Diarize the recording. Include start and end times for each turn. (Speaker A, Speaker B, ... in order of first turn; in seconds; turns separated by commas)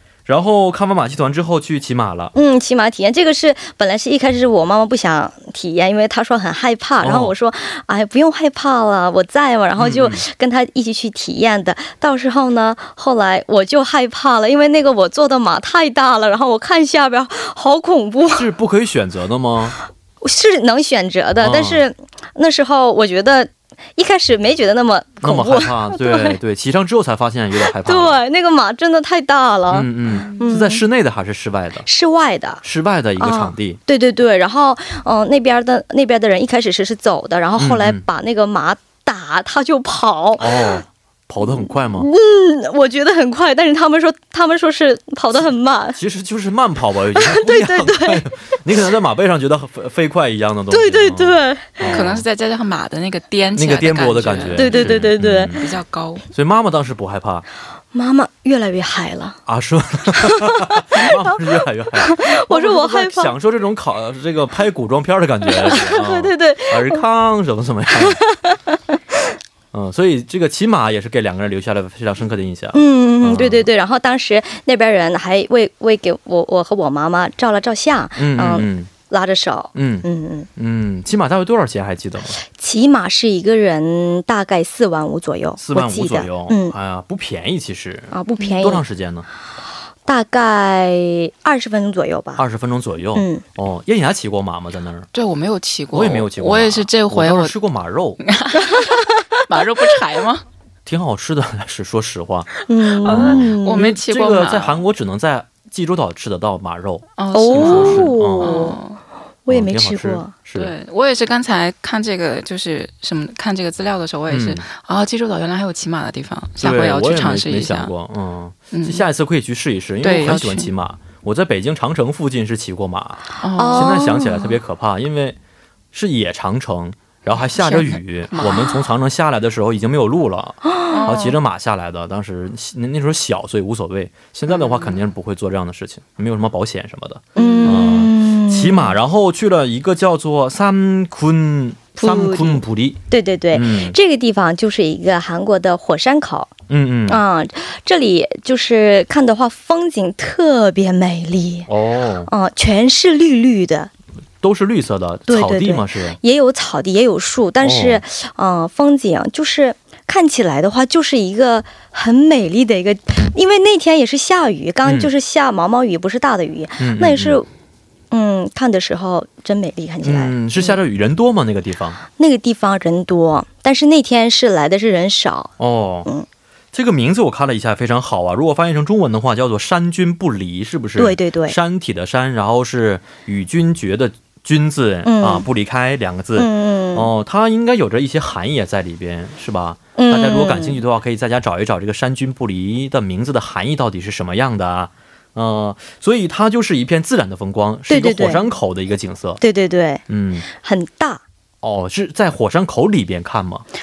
Speaker A: 0.2-2.3, Speaker B: 2.3-18.5, Speaker A: 7.0-7.3, Speaker A: 9.8-10.2, Speaker A: 18.3-19.8, Speaker B: 20.2-26.4, Speaker A: 21.4-21.8, Speaker A: 25.2-28.2, Speaker B: 27.6-30.8, Speaker A: 29.7-31.9, Speaker B: 31.8-32.6, Speaker A: 32.6-33.8, Speaker B: 33.2-40.8, Speaker A: 37.6-38.0, Speaker A: 40.4-42.1, Speaker B: 41.4-46.0, Speaker A: 45.9-52.2, Speaker B: 47.1-48.2, Speaker B: 50.7-52.0, Speaker C: 51.8-56.2, Speaker A: 53.5-55.6, Speaker B: 54.5-55.5, Speaker A: 56.3-57.4, Speaker B: 57.9-59.4, Speaker A: 59.5-68.2, Speaker B: 60.1-61.4, Speaker B: 62.0-63.3, Speaker B: 65.5-67.0, Speaker B: 68.0-68.6, Speaker A: 69.7-73.7, Speaker B: 72.7-80.5, Speaker A: 78.2-78.9, Speaker A: 79.7-80.0, Speaker A: 80.6-82.4, Speaker B: 82.4-86.7, Speaker A: 85.6-89.3, Speaker B: 88.1-88.8, Speaker B: 90.0-92.4, Speaker A: 92.4-95.1, Speaker B: 93.1-93.4, Speaker C: 95.1-97.5, Speaker A: 95.9-98.2, Speaker C: 98.2-100.4, Speaker B: 98.7-98.9, Speaker A: 100.8-102.5, Speaker B: 102.7-103.9, Speaker C: 103.0-104.8, Speaker A: 103.0-108.7, Speaker C: 107.2-109.0, Speaker B: 107.3-108.8, Speaker B: 109.5-110.3, Speaker A: 109.5-110.7, Speaker C: 110.5-117.9, Speaker A: 114.3-114.6, Speaker A: 116.6-125.4, Speaker C: 118.7-119.0, Speaker C: 120.0-120.7, Speaker C: 123.4-124.1, Speaker B: 123.5-124.5, Speaker A: 125.9-143.0, Speaker C: 127.5-128.8, Speaker B: 130.6-131.0, Speaker C: 130.9-131.4, Speaker C: 134.5-135.0, Speaker B: 137.3-138.9, Speaker C: 137.3-137.9, Speaker B: 142.0-146.5, Speaker A: 143.5-144.0, Speaker A: 146.7-147.2, Speaker B: 147.1-151.7, Speaker A: 151.7-152.3, Speaker B: 152.3-153.9, Speaker A: 154.4-156.2, Speaker B: 155.3-167.5, Speaker A: 157.6-158.0, Speaker A: 164.8-165.1, Speaker A: 166.8-167.4, Speaker B: 168.1-170.8, Speaker A: 170.0-172.0, Speaker B: 172.2-175.5, Speaker A: 175.6-176.1, Speaker A: 176.7-199.4, Speaker B: 181.0-181.6, Speaker B: 185.0-185.5, Speaker B: 186.3-187.1, Speaker B: 189.9-190.8, Speaker B: 197.9-198.4, Speaker B: 199.4-201.2, Speaker A: 200.1-200.4, Speaker A: 201.6-203.6